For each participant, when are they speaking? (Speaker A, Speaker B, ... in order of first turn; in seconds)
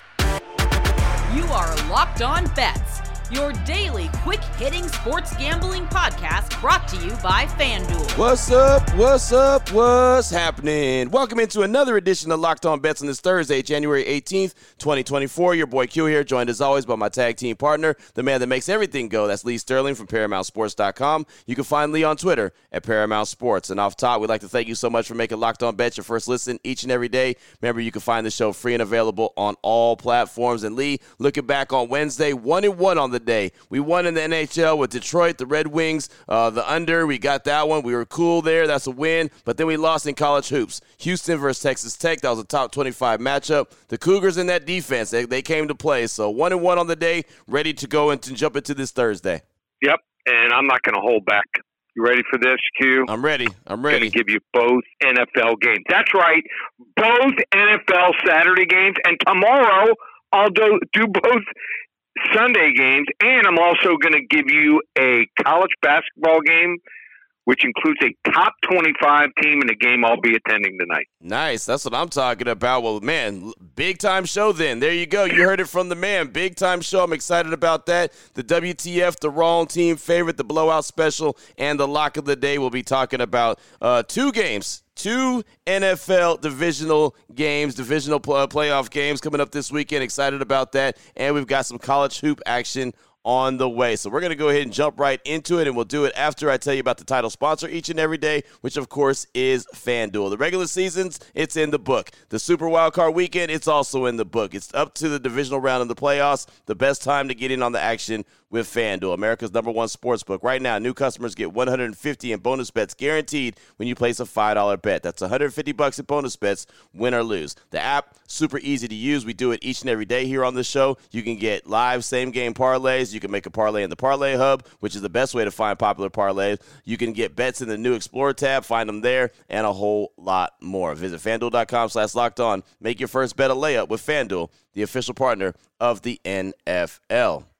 Speaker A: 1.3-8.2
Speaker B: 8.1-49.4, 53.0-54.1, 71.2-137.4
Speaker C: 49.8-53.1, 53.9-56.5, 57.0-61.5, 62.2-66.8, 67.5-71.0